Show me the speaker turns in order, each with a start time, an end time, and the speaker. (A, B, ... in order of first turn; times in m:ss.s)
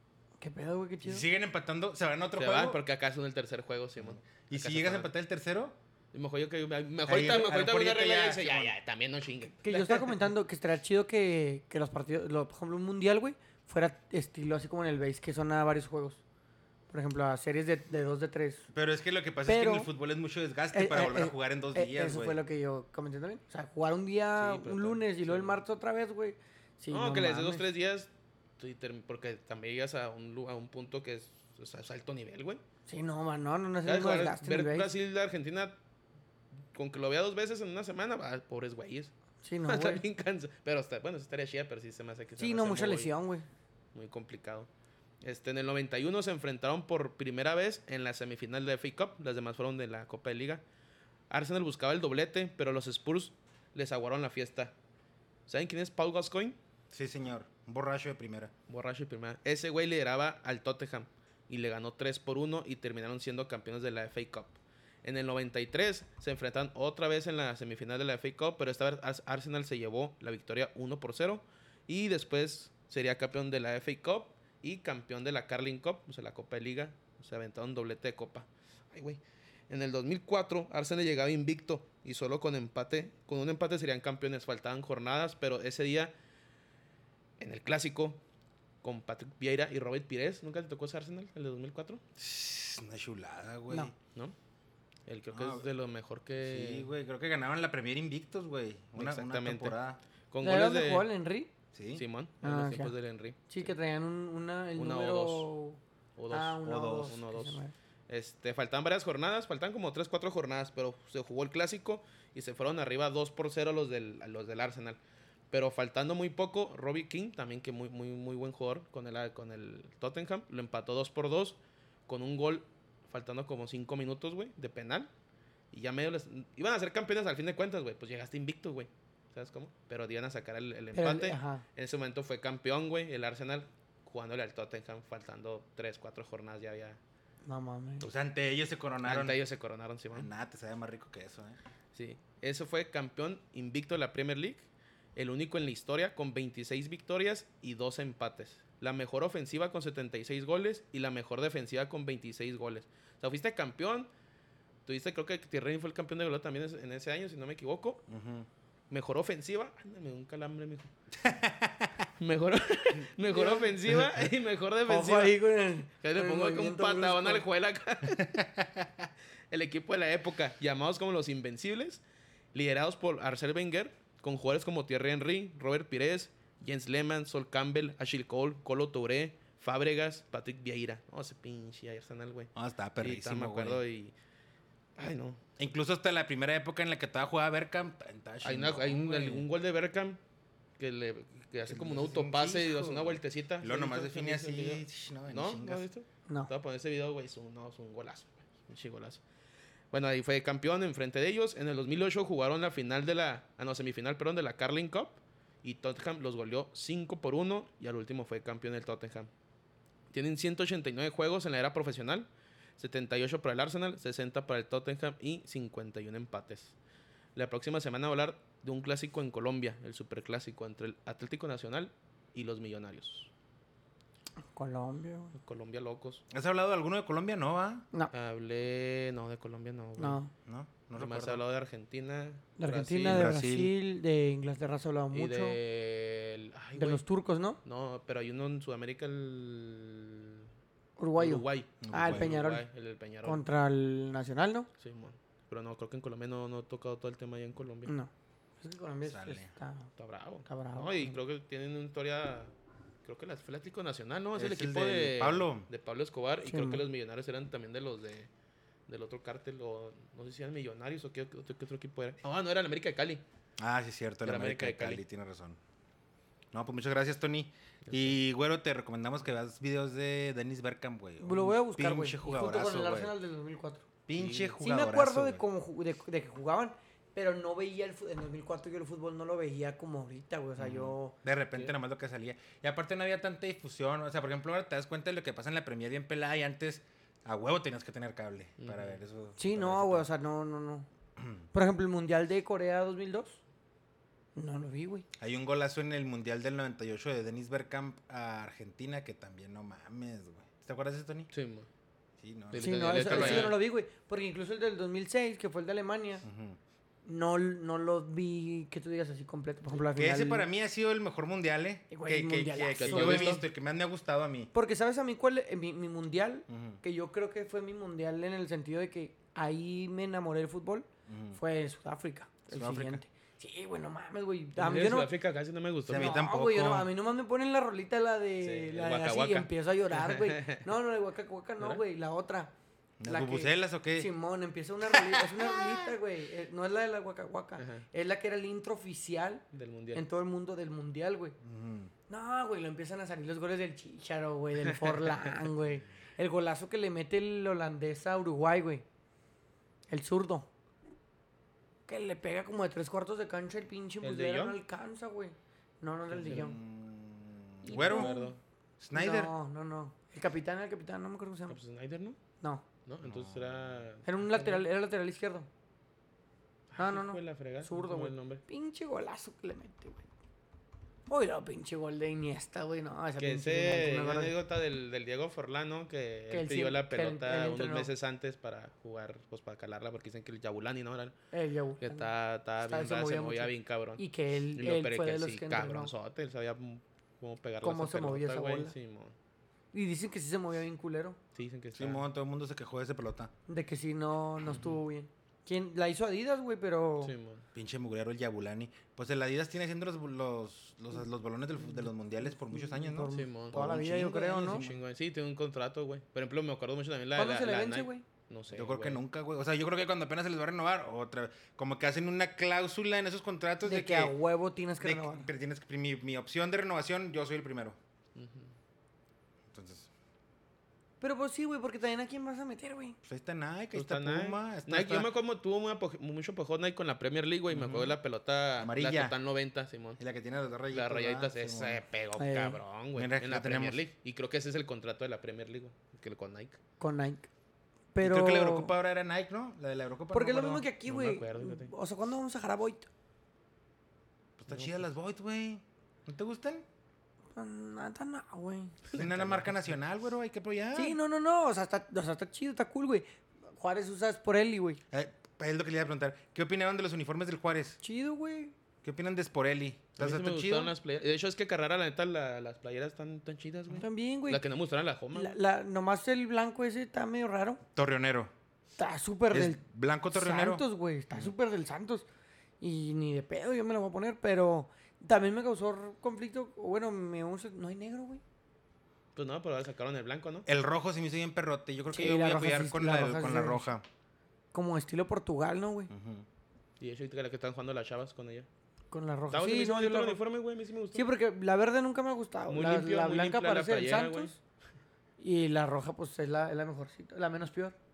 0:00.4-0:01.2 A
0:01.0-0:02.8 B
0:02.4-0:05.1 C
0:04.0-0:05.8 B
0:06.1-0:10.2 C
0:07.1-0:08.7 B
0:09.6-0:16.2 A
0:16.9-0:18.7 A
0:18.7-0:22.4 B
0:19.5-0:19.9 A
0:20.7-0:27.6 A
0:24.4-0:25.6 C
0:26.9-0:32.6 C
0:32.9-0:34.9 A
0:33.8-0:35.8 C
0:36.7-0:39.1 C
0:39.4-0:40.0 A
0:39.7-0:43.1 C
0:42.4-0:43.5 A
0:43.9-0:44.7 C
0:45.2-0:50.6 C
0:51.3-0:54.7 C
0:55.5-0:56.6 C
0:56.9-0:58.5 B
0:58.7-1:26.1 C
1:27.4-1:28.2 C
1:28.8-1:32.0 C
1:32.2-1:33.9 B
1:35.1-1:36.9 C
1:35.3-1:35.7 B
1:36.4-1:40.0 B
1:39.0-1:39.8 C
1:40.3-1:41.1 C
1:40.4-1:41.5 A
1:41.7-1:42.0 B
1:42.0-1:43.7 C
1:42.4-1:42.9 A
1:43.5-1:45.8 A
1:44.8-1:45.5 C
1:46.2-1:55.0 C
1:46.3-1:47.7 A
1:46.6-1:47.2 B
1:55.5-2:05.1 C
2:05.7-2:17.0 C
2:11.0-2:11.6 A
2:17.5-2:18.1 A
2:18.0-2:19.4 B
2:19.0-2:20.3 C
2:20.1-2:21.6 B
2:21.9-2:34.1 C
2:34.9-2:38.0 C
2:38.1-2:38.5 B
2:38.9-2:40.9 C
2:41.2-2:42.1 B
2:42.2-2:45.4 C
2:43.3-2:43.7 A
2:44.9-2:47.4 A
2:46.0-2:48.4 C
2:48.2-2:49.1 B
2:49.5-2:52.0 C
2:52.5-3:04.1 C
3:02.6-3:03.8 B
3:05.0-3:05.4 C
3:05.6-3:09.5 B
3:08.4-3:10.2 C
3:10.8-3:19.2 C
3:11.7-3:15.8 B
3:19.9-3:29.3 C
3:30.1-3:36.8 C
3:37.4-3:43.3 C
3:44.5-3:45.4 A
3:45.4-3:46.2 C
3:46.3-3:47.9 B
3:48.1-3:50.2 C
3:50.0-3:50.3 A
3:50.5-3:51.4 B
3:51.0-3:53.3 C
3:52.6-3:55.6 A
3:53.1-3:53.7 B
3:55.1-3:57.0 C
3:56.8-3:57.6 A
3:57.6-4:00.5 C
4:01.0-4:02.6 A
4:01.2-4:03.4 C
4:01.8-4:02.4 B
4:03.2-4:04.7 A
4:04.8-4:07.9 C
4:07.9-4:09.9 A
4:09.0-4:09.5 B
4:10.0-4:12.5 C
4:10.5-4:11.2 A
4:13.0-4:18.3 C
4:14.4-4:15.7 B
4:16.5-4:16.8 A
4:18.9-4:23.2 C
4:23.6-4:25.6 B
4:24.2-4:25.0 C
4:26.5-4:33.1 B
4:27.9-4:28.2 C
4:31.2-4:33.9 A
4:34.1-4:35.4 B
4:34.2-4:34.6 C
4:34.6-4:41.2 A
4:40.6-4:50.1 B
4:48.6-4:49.0 C
4:49.4-4:50.9 A
4:51.2-4:51.4 B
4:51.5-4:53.4 A
4:54.4-4:55.1 A
4:55.2-5:01.3 B
5:01.3-5:01.7 C
5:02.2-5:03.6 B
5:02.5-5:03.6 C
5:02.6-5:06.3 A
5:06.2-5:06.6 B
5:07.0-5:10.5 A
5:09.9-5:14.5 B
5:11.9-5:13.4 A
5:12.8-5:13.4 C
5:14.5-5:25.1 A
5:16.5-5:16.8 B
5:21.1-5:21.4 B
5:22.5-5:23.0 B
5:24.6-5:26.2 C
5:25.9-5:26.9 B
5:25.9-5:32.5 A
5:28.4-5:30.7 C
5:33.0-5:34.1 B
5:33.1-5:41.4 A
5:34.9-5:35.4 B
5:37.6-5:37.8 C
5:39.5-5:40.0 C
5:41.4-5:41.9 B
5:42.1-5:48.8 A
5:44.6-5:45.3 C
5:49.9-5:50.5 A
5:51.9-5:56.6 A
5:54.0-5:54.6 C
5:56.1-5:56.5 C
5:56.2-5:58.3 B
5:57.6-5:58.4 C
5:57.7-5:58.3 A
5:58.8-5:59.3 B
5:58.9-6:01.6 A
6:01.5-6:02.2 C
6:02.9-6:04.6 C
6:03.0-6:03.8 B
6:04.0-6:05.5 A
6:06.7-6:08.4 C
6:06.8-6:10.0 A
6:11.1-6:14.3 A
6:13.2-6:21.2 C
6:16.3-6:17.9 A
6:21.3-6:22.1 A
6:21.8-6:29.2 C
6:22.6-6:25.9 A
6:27.6-6:28.7 A
6:29.7-6:31.2 A
6:31.4-6:32.1 C
6:31.8-6:33.3 B
6:33.5-6:37.1 A
6:37.0-6:37.5 C
6:37.6-6:44.8 B
6:42.3-6:44.6 A
6:43.1-6:43.6 C
6:44.4-6:49.0 C
6:47.2-6:48.0 A
6:48.5-6:54.1 B
6:53.6-6:55.3 A
6:54.8-6:57.8 B
6:58.2-6:58.5 C
6:59.5-6:59.9 B
7:01.0-7:03.0 A
7:03.0-7:05.1 B
7:03.7-7:10.0 C
7:07.5-7:08.0 B
7:08.6-7:09.2 B
7:10.0-7:11.8 B
7:10.7-7:16.6 C
7:12.2-7:12.6 A
7:13.0-7:13.8 B
7:16.8-7:17.3 A
7:17.9-7:18.7 A
7:18.0-7:20.7 B
7:20.1-7:22.9 A
7:20.9-7:21.7 C
7:24.4-7:26.6 B
7:24.5-7:24.8 C
7:27.4-7:28.8 A
7:28.9-7:29.6 C
7:28.9-7:31.0 B
7:30.8-7:33.1 A
7:33.6-7:34.8 A
7:34.9-7:37.8 B
7:37.8-7:38.5 A
7:38.8-7:40.7 B
7:40.0-7:45.4 C
7:43.7-7:44.4 A
7:45.1-7:47.6 A
7:47.8-7:48.3 B
7:48.8-7:49.6 A
7:49.3-7:50.6 B
7:50.1-7:52.1 A
7:52.6-7:58.2 A
7:59.2-8:00.5 C
8:00.5-8:03.8 B
8:01.9-8:03.7 A
8:04.5-8:05.9 A
8:05.9-8:06.3 B
8:06.8-8:08.5 C
8:08.9-8:10.2 A
8:09.3-8:11.1 C
8:10.9-8:14.4 A
8:12.5-8:14.4 C
8:15.2-8:17.8 A